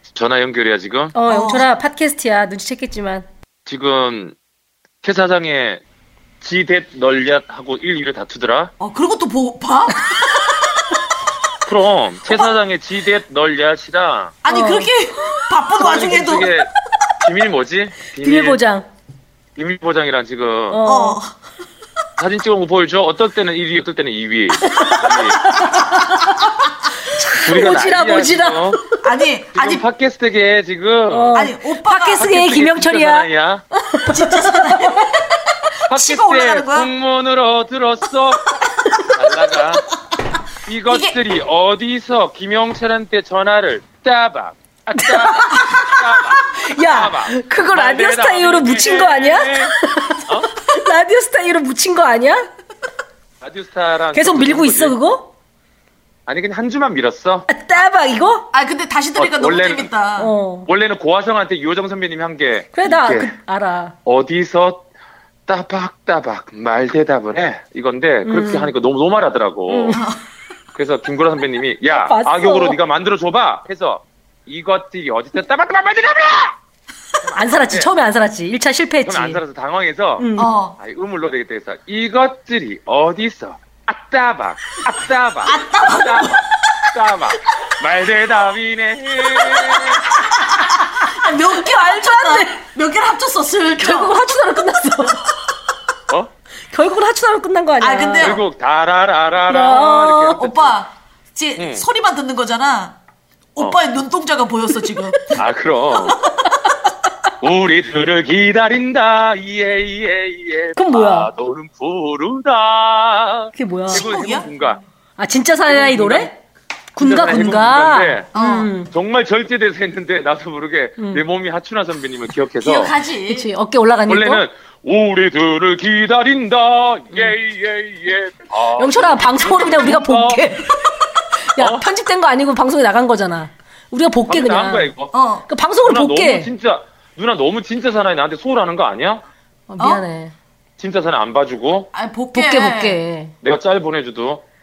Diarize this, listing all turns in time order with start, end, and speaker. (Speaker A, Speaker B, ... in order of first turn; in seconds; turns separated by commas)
Speaker A: 0.1-1.1, Speaker B: 1.1-3.2, Speaker C: 1.2-1.6, Speaker A: 3.6-4.3, Speaker A: 5.0-5.8, Speaker A: 6.4-8.7, Speaker C: 8.8-10.6, Speaker A: 11.7-14.4, Speaker C: 12.3-12.5, Speaker C: 14.4-16.6, Speaker B: 14.5-15.4, Speaker A: 15.8-16.7, Speaker A: 17.2-18.6, Speaker B: 18.2-18.9, Speaker A: 19.6-20.8, Speaker B: 20.7-21.2, Speaker C: 20.8-21.3, Speaker A: 22.2-25.6, Speaker B: 24.6-28.8, Speaker A: 27.3-28.9, Speaker C: 29.0-29.8, Speaker A: 29.5-31.4, Speaker B: 31.1-34.9, Speaker C: 31.3-32.3, Speaker A: 32.2-33.6, Speaker C: 34.0-35.2, Speaker A: 35.9-38.5, Speaker C: 35.9-36.9, Speaker A: 39.1-39.8, Speaker A: 40.6-50.5, Speaker C: 40.9-41.2, Speaker B: 44.9-52.5, Speaker A: 53.4-55.0, Speaker B: 54.1-55.3, Speaker A: 56.3-57.5, Speaker B: 57.5-58.5, Speaker C: 58.5-60.3, Speaker A: 59.2-59.9, Speaker B: 60.2-60.7, Speaker A: 60.6-63.3, Speaker B: 62.7-64.0, Speaker A: 64.0-64.8, Speaker A: 65.5-70.0, Speaker B: 68.2-68.7, Speaker B: 69.7-70.0, Speaker A: 70.7-76.5, Speaker B: 71.8-72.8, Speaker A: 77.2-77.9, Speaker B: 77.3-79.4, Speaker A: 79.0-80.3, Speaker B: 80.2-80.5, Speaker C: 80.4-80.8, Speaker A: 80.8-86.3, Speaker C: 85.5-86.4, Speaker A: 86.9-90.0, Speaker C: 90.3-94.2, Speaker B: 91.0-92.6, Speaker B: 93.8-95.3, Speaker B: 96.7-98.4, Speaker C: 97.8-98.4, Speaker A: 98.2-100.7, Speaker B: 99.5-100.5, Speaker C: 100.3-103.0, Speaker A: 101.6-101.8, Speaker C: 103.5-105.4, Speaker A: 105.3-106.2, Speaker B: 106.1-106.7, Speaker A: 107.4-114.8, Speaker B: 110.8-111.3, Speaker B: 113.5-114.0, Speaker C: 113.9-114.5, Speaker B: 115.2-116.3, Speaker A: 115.7-116.3, Speaker A: 117.0-118.3, Speaker B: 117.0-118.9, Speaker C: 118.3-118.7, Speaker A: 118.8-122.9, Speaker B: 121.0-121.2, Speaker C: 122.6-123.5, Speaker B: 123.3-124.4, Speaker A: 124.1-130.5, Speaker B: 128.8-130.9, Speaker B: 131.5-134.9, Speaker A: 131.6-131.8, Speaker A: 134.3-135.1, Speaker C: 135.1-135.5, Speaker B: 135.5-136.5, Speaker A: 135.8-139.2, Speaker B: 139.7-140.3, Speaker A: 140.8-141.9, Speaker C: 141.9-143.0, Speaker B: 142.3-143.3, Speaker A: 143.4-144.4